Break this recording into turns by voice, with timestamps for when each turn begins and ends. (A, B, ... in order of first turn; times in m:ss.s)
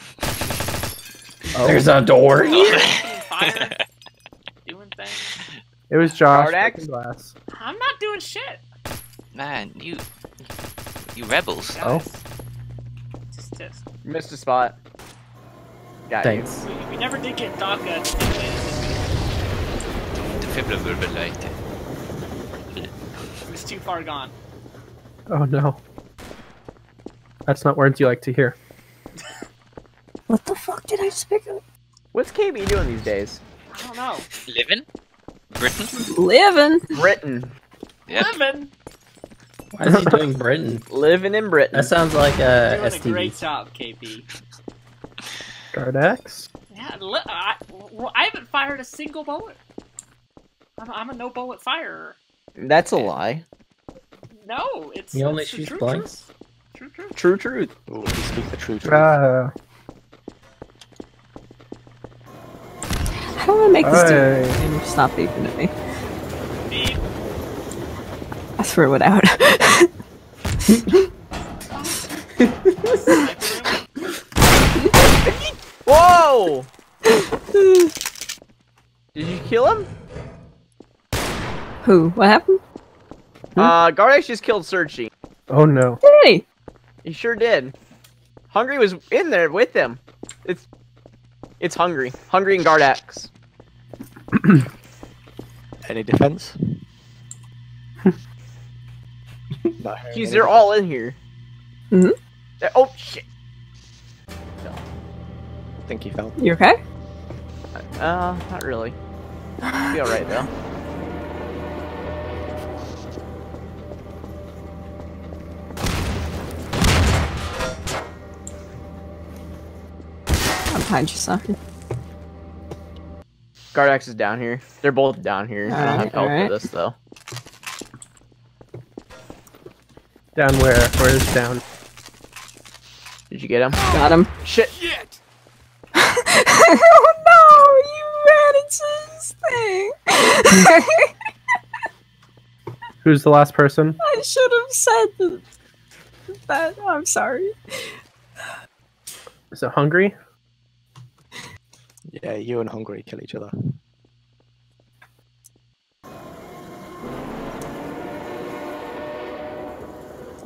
0:01.5-0:01.9 A
0:01.6-0:02.9 B
0:02.3-0:03.8 C
0:02.5-0:03.7 D
0:04.6-0:05.3 C
0:05.9-0:07.3 A
0:06.3-0:06.8 E
0:07.5-0:08.6 C
0:09.3-0:10.4 D
0:11.1-0:11.8 D
0:11.7-0:12.2 C
0:13.3-0:13.8 C
0:14.0-0:14.8 E
0:16.1-0:16.5 E
0:16.2-0:16.6 B
0:16.6-0:19.0 C
0:20.2-0:21.5 D
0:23.4-0:24.3 C
0:25.3-0:25.8 A
0:27.5-0:28.6 A
0:30.3-0:31.6 F
0:32.1-0:33.4 E
0:33.7-0:34.3 C
0:34.4-0:34.8 D
0:35.5-0:35.9 D
0:35.9-0:36.9 F
0:36.9-0:37.5 E
0:38.1-0:38.7 C
0:39.7-0:40.8 B
0:39.8-0:40.2 A
0:40.9-0:41.9 E
0:41.7-0:43.4 B
0:42.6-0:44.2 C
0:45.7-0:46.5 A
0:46.7-0:49.6 C
0:50.8-0:52.2 C
0:52.6-0:53.4 E
0:54.4-0:57.2 C
0:55.1-0:56.1 B
0:57.2-0:57.7 E
0:57.9-0:59.1 G
0:58.8-0:59.5 A
1:03.4-1:05.7 F
1:03.8-1:04.6 A
1:06.7-1:07.0 C
1:08.6-1:09.9 F
1:11.6-1:12.2 C
1:12.8-1:13.9 C
1:15.1-1:16.7 E
1:17.1-1:17.9 F
1:19.1-1:19.9 E
1:21.8-1:22.6 F
1:23.6-1:25.1 E
1:25.5-1:26.0 A
1:26.0-1:26.4 F
1:27.0-1:27.7 E
1:28.5-1:30.6 E
1:31.6-1:33.3 E
1:34.3-1:34.6 A
1:35.8-1:36.8 G
1:39.8-1:40.7 G
1:40.1-1:41.2 E
1:42.6-1:43.2 E
1:45.8-1:46.4 G
1:46.4-1:46.8 F
1:47.8-1:48.9 E
1:49.7-1:49.9 F
1:49.9-1:50.5 E
2:00.7-2:01.6 F
2:03.7-2:06.9 E
2:05.7-2:06.5 F
2:10.4-2:11.6 A
2:13.3-2:13.8 E
2:13.9-2:14.3 F
2:14.4-2:14.8 E
2:16.0-2:21.1 F
2:23.0-2:24.0 A
2:24.0-2:25.4 F
2:26.5-2:28.0 F
2:29.5-2:30.1 A
2:32.1-2:33.5 G